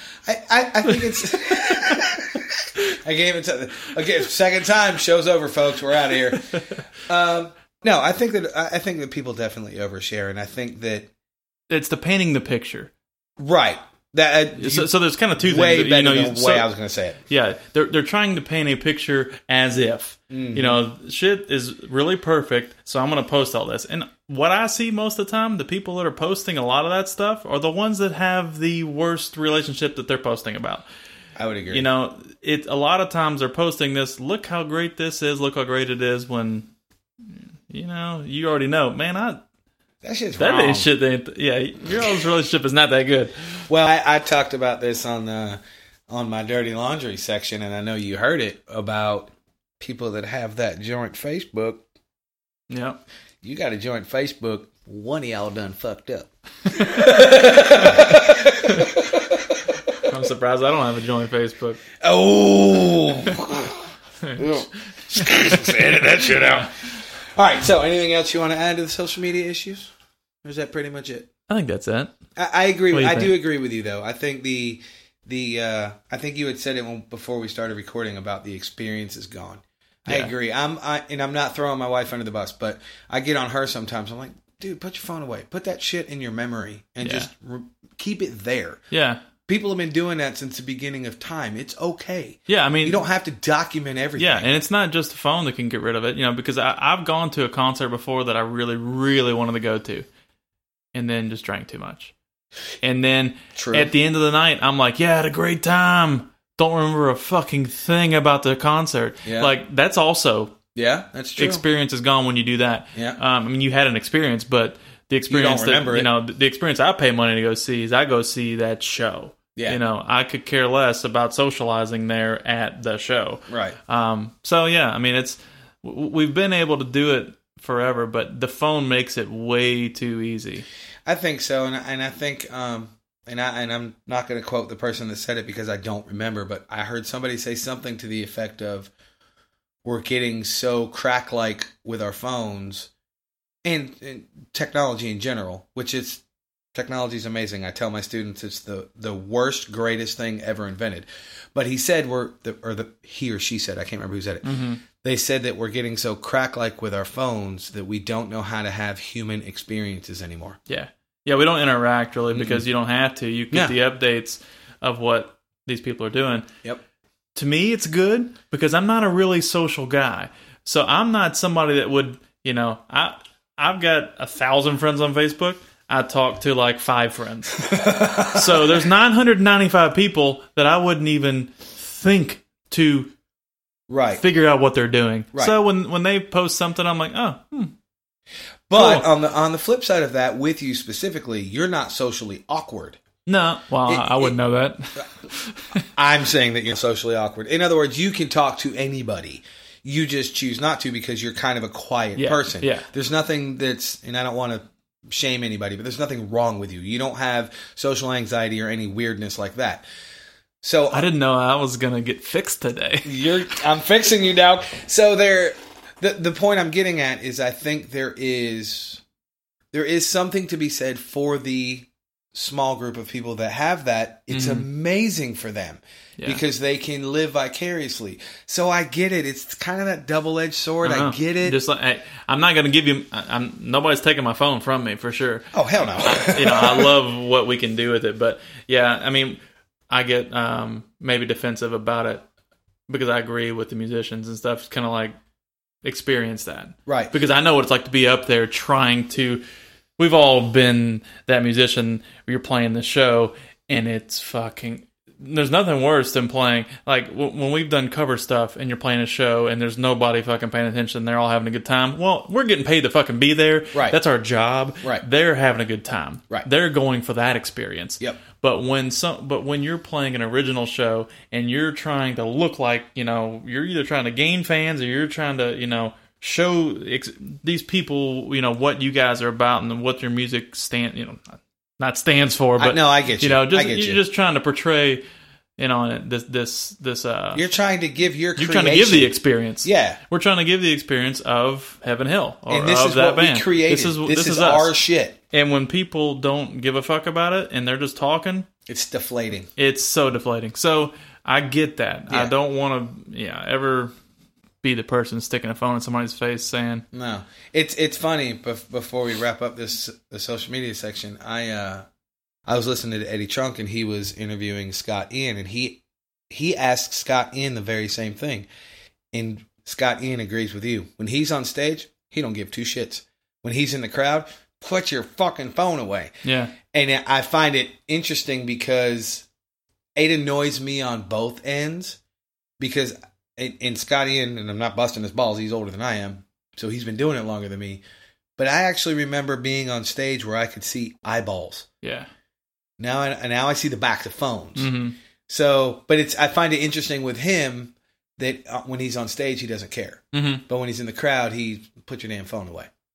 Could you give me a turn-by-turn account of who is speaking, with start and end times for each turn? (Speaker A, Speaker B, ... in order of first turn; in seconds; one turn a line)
Speaker A: 0.2-11.1
Speaker B: 1.5-2.0
Speaker B: 11.7-12.9
Speaker A: 13.4-17.2
Speaker B: 14.6-16.7
Speaker B: 17.3-30.8
Speaker A: 20.3-20.8
Speaker A: 31.4-31.9
Speaker B: 31.7-36.7
Speaker B: 37.7-39.4
Speaker A: 40.0-40.9
Speaker B: 40.4-43.3
Speaker A: 43.7-51.8
Speaker B: 52.7-53.0
Speaker A: 53.4-60.0
Speaker B: 56.7-57.1
Speaker B: 58.6-59.0
Speaker B: 60.0-61.8
Speaker A: 62.0-63.9
Speaker B: 64.2-64.6
Speaker A: 64.4-66.8
Speaker B: 65.1-65.7
Speaker A: 67.3-69.9
Speaker A: 70.4-71.3
Speaker B: 71.5-72.1
Speaker A: 72.3-88.8
Speaker B: 72.9-73.3
Speaker B: 80.1-80.3
Speaker B: 87.0-87.3
Speaker B: 88.9-89.2
Speaker A: 89.5-94.5
Speaker B: 92.5-93.0
Speaker B: 94.2-100.0
Speaker B: 100.9-102.1
Speaker B: 102.8-110.6
Speaker A: 103.5-103.9
Speaker A: 109.2-109.5
Speaker A: 110.7-111.6
Speaker B: 111.4-130.7
Speaker A: 115.3-116.1
Speaker A: 123.5-123.8
Speaker A: 131.1-138.9
Speaker A: 139.8-142.9
Speaker A: 143.6-146.2
Speaker A: 146.7-154.4
Speaker B: 154.4-154.8
Speaker A: 155.0-160.6
Speaker B: 160.7-166.5
Speaker A: 162.3-162.6
Speaker B: 167.3-183.1
Speaker A: 177.7-178.8
Speaker A: 183.9-184.2
Speaker B: 184.2-187.7
Speaker A: 188.7-193.0
Speaker B: 188.7-189.1
Speaker B: 193.2-195.8
Speaker A: 193.8-194.3
Speaker A: 195.9-209.8
Speaker B: 202.2-202.9
Speaker A: 210.6-211.1
Speaker B: 210.9-213.3
Speaker A: 213.0-219.0
Speaker A: 219.7-231.6
Speaker B: 224.3-224.7
Speaker B: 230.8-242.2
Speaker A: 235.5-236.9
Speaker B: 242.9-245.1
Speaker B: 245.8-249.4
Speaker A: 246.9-247.1
Speaker B: 250.0-285.0
Speaker A: 263.7-264.0
Speaker A: 282.6-284.0
Speaker B: 285.6-287.4
Speaker A: 287.3-290.0
Speaker B: 288.4-294.7
Speaker A: 292.5-295.2
Speaker B: 295.3-298.5
Speaker A: 298.7-299.5
Speaker B: 299.6-303.9
Speaker B: 304.6-306.8
Speaker A: 306.9-311.8
Speaker A: 312.4-318.5
Speaker A: 319.1-329.3
Speaker B: 326.2-326.5
Speaker A: 330.0-332.0
Speaker A: 332.6-337.8
Speaker A: 338.4-341.6
Speaker B: 341.8-342.1
Speaker A: 342.8-344.7
Speaker B: 344.6-344.9
Speaker A: 345.3-352.7
Speaker B: 350.1-350.4